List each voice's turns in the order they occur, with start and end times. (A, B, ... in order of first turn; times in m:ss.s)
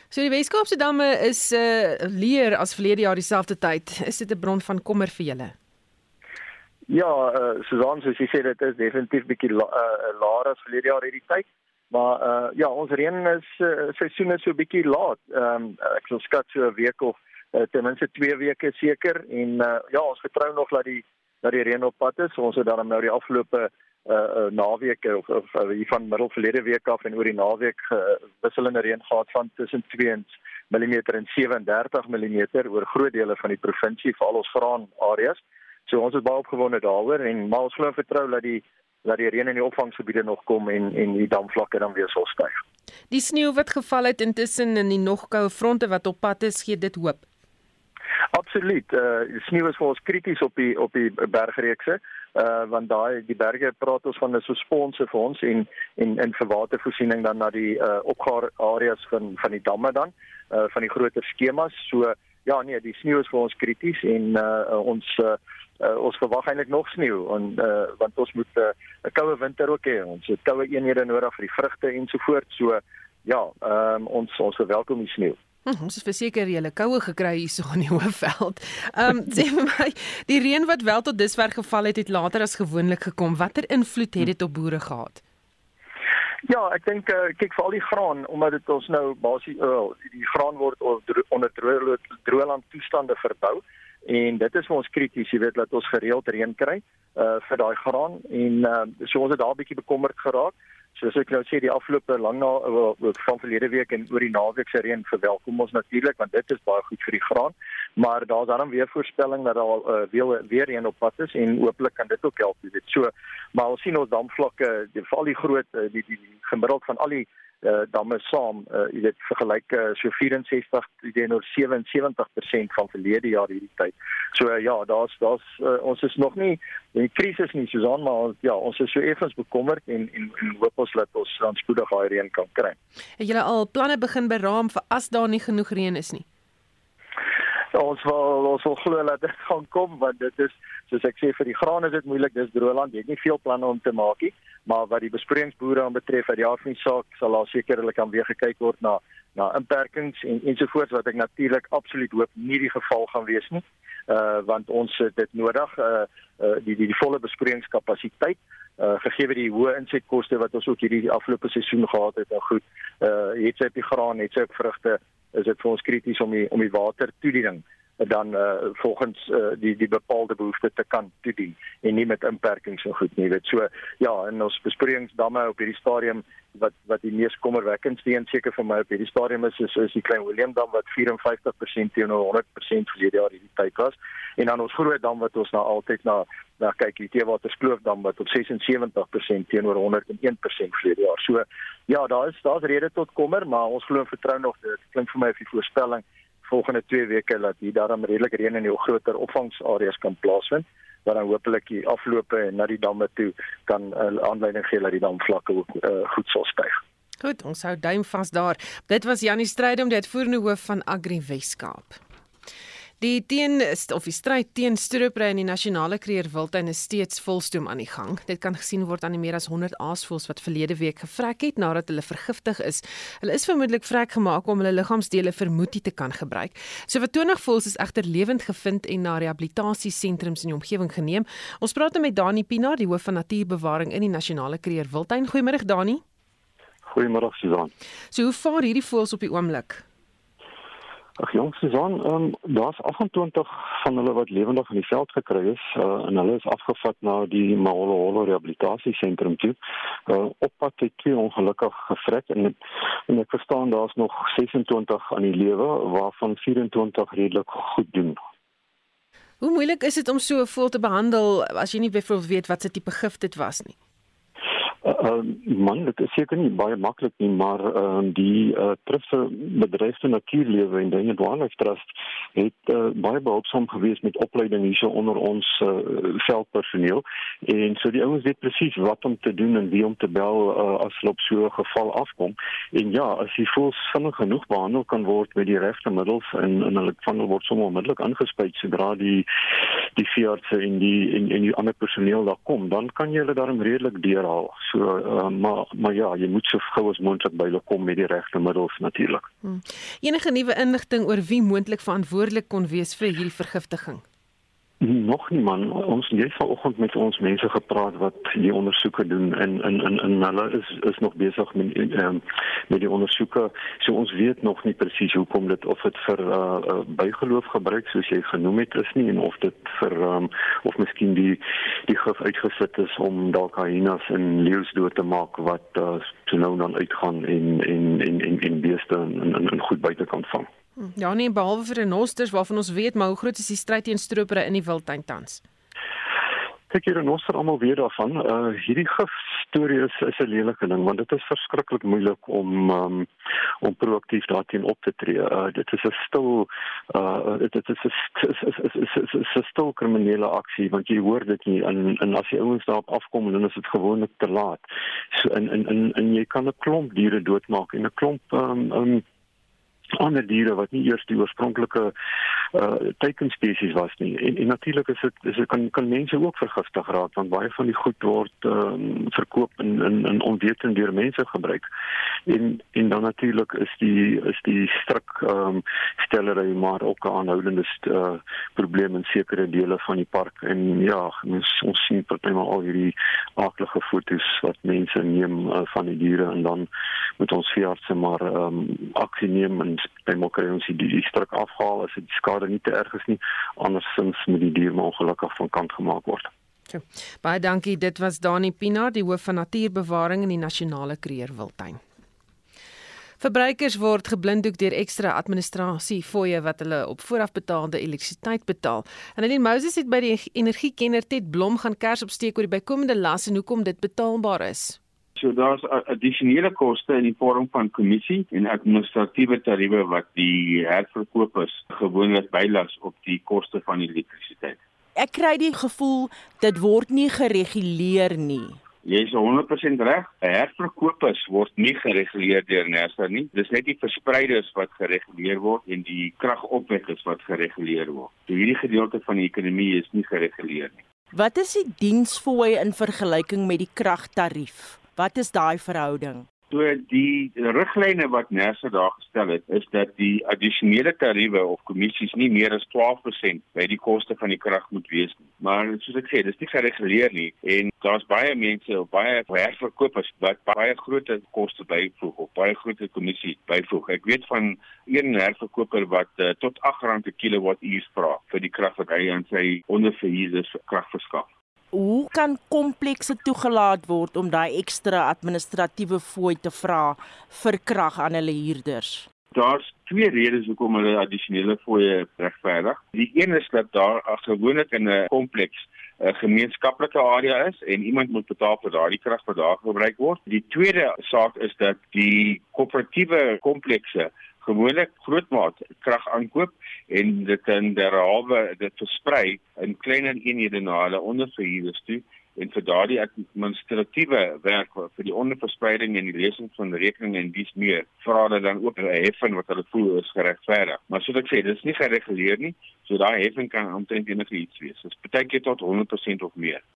0:00.1-0:05.5 A
0:06.9-0:42.6 B
0:43.1-0:47.2 A
0:48.3-1:15.4 B
1:15.6-1:25.2 A
1:26.5-2:12.8 B
2:13.2-2:16.2 A
2:17.7-3:26.8 B
3:27.2-3:32.0 A
3:33.0-3:56.0 A
3:56.8-3:57.7 C
3:58.1-3:59.8 A
4:01.2-4:12.6 C
4:13.1-4:18.2 C
4:19.4-4:23.8 A
4:24.8-4:49.3 C
4:50.0-4:59.3 C
4:59.4-5:04.0 A
5:04.8-5:30.5 C
5:30.8-5:35.4 A
5:36.7-5:43.1 C
5:43.6-5:59.0 C
6:00.0-6:01.9 C
6:02.5-6:11.7 C
6:12.3-6:26.7 C
6:27.2-6:36.3 C
6:36.7-6:41.8 A
6:43.2-6:54.8 A
6:55.2-7:04.6 D
7:05.0-7:08.6 E
7:08.8-7:20.8 D
7:21.1-7:26.3 E
7:26.5-7:51.3 D
7:51.7-7:59.1 E
7:59.3-8:36.6 D